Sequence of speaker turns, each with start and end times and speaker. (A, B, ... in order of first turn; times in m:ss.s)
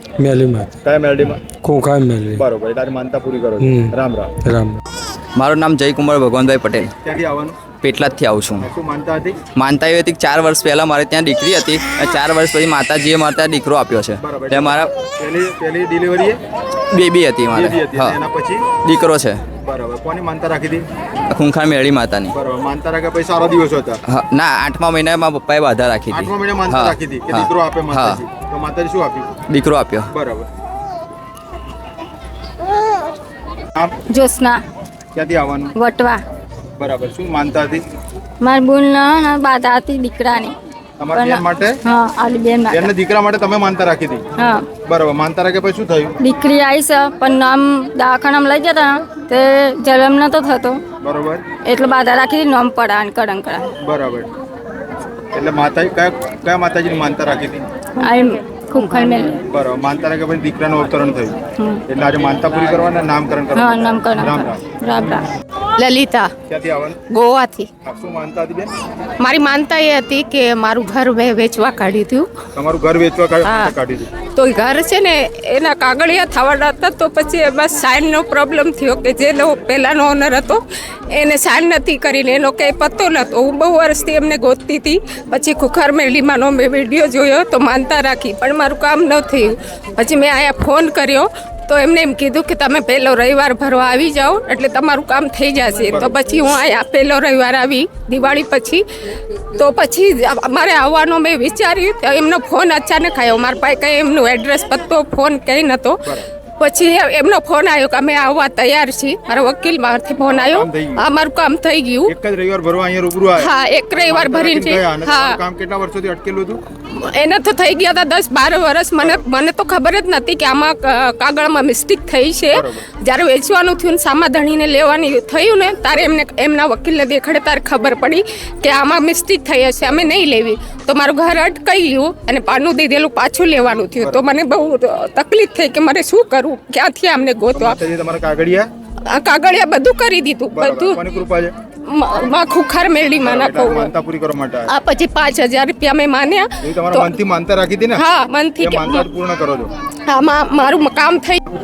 0:00.2-0:00.7 A
0:00.8-0:01.4 B
0:01.6-0:02.4 A
0:02.4-0:04.3 B
0:03.6-0:03.9 A
0:04.5-0:04.8 A
0:05.4-0:06.9 C
0:07.0-0:07.7 B
0:07.8-0:08.7 C
0:08.6-0:09.4 B
0:09.6-0:14.9 C
0:14.2-0:16.4 B
0:16.9-0:18.2 C
0:17.5-0:18.7 B
0:18.8-0:19.4 C
0:19.6-0:20.8 B
0:21.4-0:22.3 C
0:22.3-0:24.0 B
0:24.1-0:28.2 C
0:26.1-0:29.3 B
0:29.5-0:30.1 C
0:30.1-0:30.5 B
0:34.2-0:34.5 D
0:35.2-0:35.7 B
0:35.8-0:36.2 D
0:36.8-0:37.8 B
0:38.4-0:40.5 D
0:41.0-0:41.8 B
0:41.2-0:42.9 D
0:42.7-0:44.2 B
0:44.9-0:46.2 B
0:46.2-0:50.8 D
0:51.0-0:51.4 B
0:51.7-0:53.6 D
0:53.8-0:54.3 B
0:55.3-0:57.6 B
0:58.0-0:59.3 D
0:59.4-1:04.6 B
1:03.6-1:05.2 D
1:06.5-1:07.0 B
1:07.8-1:08.7 B
1:12.6-1:14.1 B
1:14.4-1:38.8 E
1:35.9-1:36.1 B
1:39.6-1:46.0 E
1:46.6-1:52.1 E
1:50.2-1:51.0 B
1:52.1-1:56.6 B
1:53.4-1:55.4 E
1:57.0-2:17.8 E
2:02.5-2:02.8 B
2:17.5-2:18.7 B
2:19.1-2:21.0 E
2:20.5-2:21.5 B
2:21.9-2:23.9 E
2:23.2-2:24.7 B
2:24.7-2:27.2 E
2:26.6-2:28.0 B
2:28.0-2:29.1 E
2:28.6-2:29.7 B
2:30.1-2:31.4 E